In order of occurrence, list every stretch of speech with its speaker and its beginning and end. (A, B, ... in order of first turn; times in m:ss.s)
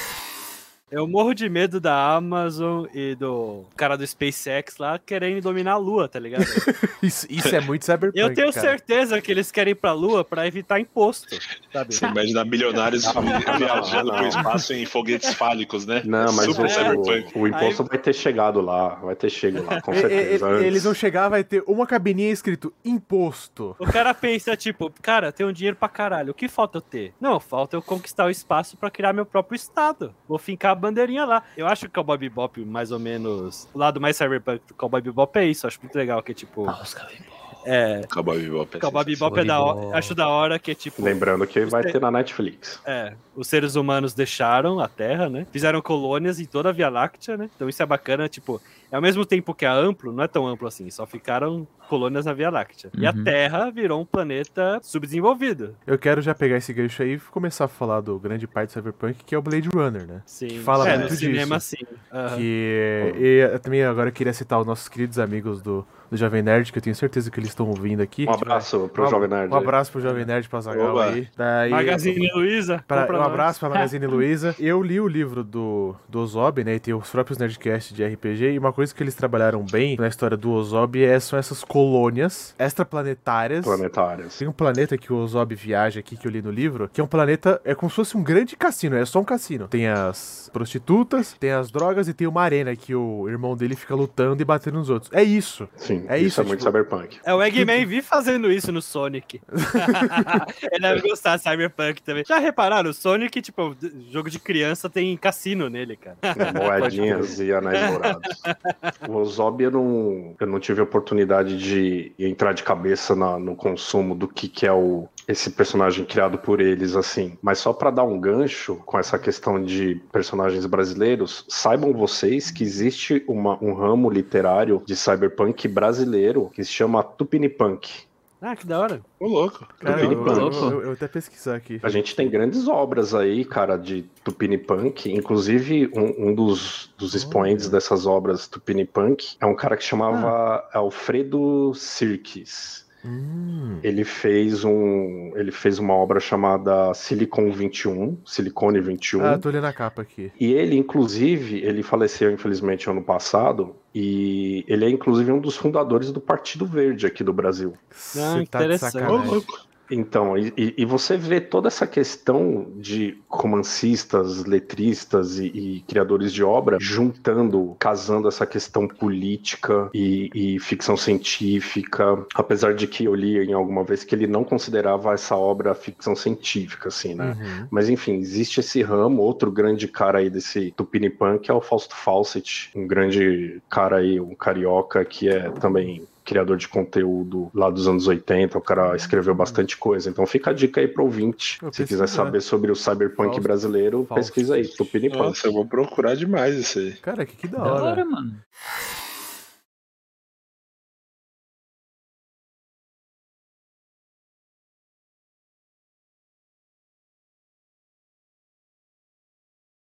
0:00.9-0:06.7 A
0:06.4-0:08.8 B
0:08.1-0:12.1 A
0:11.9-0:17.3 C
0:12.7-0:14.6 A
0:13.0-0:14.5 D
0:16.0-0:21.0 D
0:16.4-0:17.8 A
0:19.6-0:20.1 A
0:19.9-0:23.9 B
0:23.8-0:36.8 A
0:36.6-0:37.5 E
0:37.6-0:38.1 A
0:38.1-0:39.5 C
0:38.8-0:42.0 A
0:39.3-0:40.2 E
0:41.0-0:42.8 D
0:42.8-0:55.8 A
0:52.9-0:53.3 E
0:55.9-1:01.6 B
1:00.3-1:02.5 A
1:00.8-1:01.2 D
1:02.3-1:12.3 B
1:08.2-1:09.8 D
1:10.0-1:10.3 A
1:10.7-1:11.2 C
1:11.7-1:14.1 A
1:12.9-1:23.8 B
1:23.6-1:24.4 D
1:24.4-1:36.8 B
1:35.8-1:37.2 D
1:37.2-1:47.0 A
1:37.6-1:37.8 B
1:39.5-1:40.4 B
1:46.4-1:48.4 D
1:46.8-1:47.4 B
1:47.8-1:48.9 A
1:49.0-2:08.0 D
2:08.4-2:09.0 A
2:09.2-2:10.4 C
2:09.8-2:12.3 B
2:09.8-2:10.7 D
2:09.8-2:10.8 E
2:11.8-2:22.8 D
2:17.1-2:17.8 B
2:23.0-2:23.9 B
2:23.8-2:29.4 D
2:29.2-2:30.3 B
2:30.4-2:37.8 D
2:37.9-2:39.4 B
2:38.1-2:39.4 A
2:39.0-2:39.6 C
2:39.9-3:15.5 D
2:57.2-2:57.7 B
3:08.8-3:09.6 B
3:11.6-3:12.4 B
3:13.2-3:13.5 B
3:14.0-3:14.9 B
3:15.1-3:17.0 C
3:17.0-3:18.0 B
3:17.6-3:18.4 E